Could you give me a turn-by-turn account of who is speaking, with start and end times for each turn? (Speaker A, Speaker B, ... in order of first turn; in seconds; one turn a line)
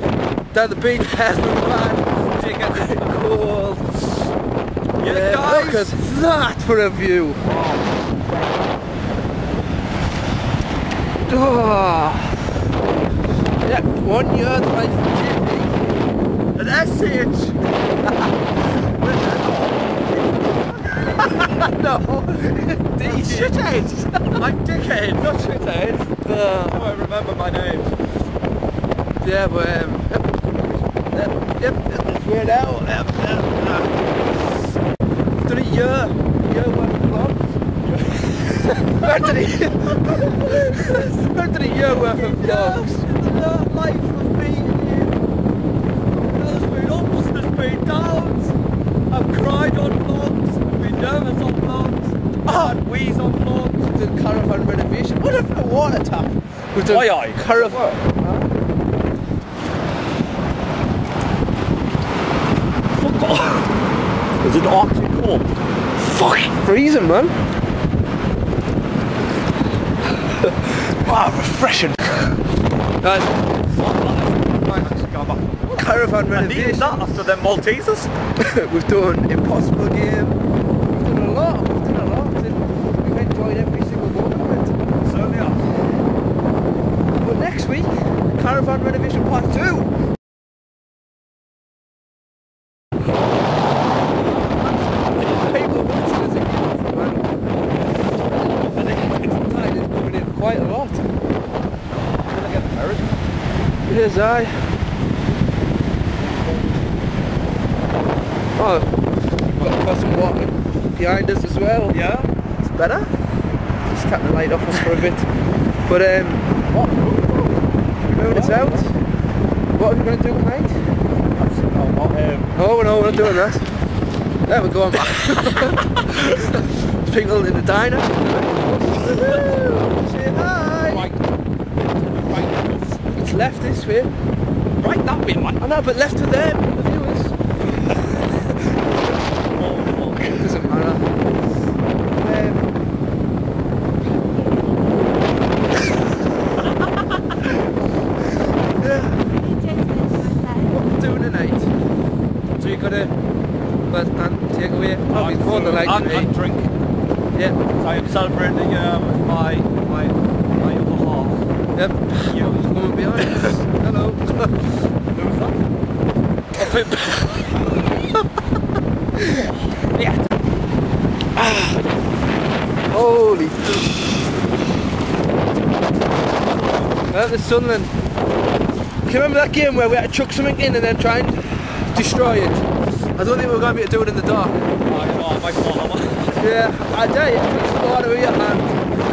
Speaker A: 0.5-4.1
Speaker B: 2.1-3.4
Speaker B: 5.0-5.9
Speaker A: 5.0-7.4
Speaker B: 7.4-8.2
Speaker A: 11.3-12.4
Speaker A: 13.6-15.8
Speaker B: 16.5-17.6
Speaker B: 18.7-21.7
Speaker A: 21.1-24.4
Speaker B: 23.0-23.8
Speaker B: 24.3-27.9
Speaker A: 26.2-26.9
Speaker A: 29.2-33.8
Speaker B: 33.4-33.9
Speaker A: 35.4-37.4
Speaker B: 37.9-38.3
Speaker A: 38.2-43.0
Speaker B: 39.9-45.2
Speaker B: 46.2-48.5
Speaker B: 49.1-53.9
Speaker A: 53.9-58.5
Speaker B: 56.9-58.0
Speaker B: 62.9-63.7
Speaker B: 64.4-65.5
Speaker A: 66.0-67.3
Speaker A: 70.4-72.0
Speaker A: 73.0-73.3
Speaker B: 73.7-78.1
Speaker A: 75.7-77.2
Speaker A: 78.4-80.4
Speaker A: 80.9-84.8
Speaker B: 85.0-85.6
Speaker A: 87.2-89.9
Speaker A: 95.2-97.4
Speaker B: 98.5-99.3
Speaker A: 98.5-101.1
Speaker B: 101.9-103.2
Speaker A: 103.9-104.7
Speaker A: 108.5-108.9
Speaker A: 109.5-112.0
Speaker B: 111.9-112.3
Speaker A: 112.6-113.1
Speaker A: 113.8-115.3
Speaker A: 115.9-116.5
Speaker B: 116.7-117.6
Speaker A: 118.1-118.9
Speaker B: 118.1-118.8
Speaker A: 119.7-120.8
Speaker B: 121.2-122.5
Speaker A: 122.5-123.7
Speaker A: 124.5-131.1
Speaker B: 128.7-133.0
Speaker A: 133.1-134.1
Speaker B: 134.8-135.6
Speaker A: 135.6-137.3
Speaker B: 139.5-140.6
Speaker A: 140.2-141.1
Speaker A: 142.2-142.7
Speaker A: 148.8-149.3
Speaker A: 150.3-151.7
Speaker B: 152.6-153.1
Speaker A: 153.9-156.3
Speaker B: 155.1-156.7
Speaker B: 157.8-161.4
Speaker A: 161.7-164.7
Speaker B: 162.2-162.6
Speaker B: 163.2-163.5
Speaker B: 165.1-165.6
Speaker B: 166.5-167.7
Speaker A: 169.2-169.5
Speaker B: 169.3-170.2
Speaker A: 172.9-173.7
Speaker B: 176.4-176.9
Speaker A: 177.1-177.9
Speaker A: 179.0-184.7
Speaker B: 184.8-186.4
Speaker A: 186.4-188.8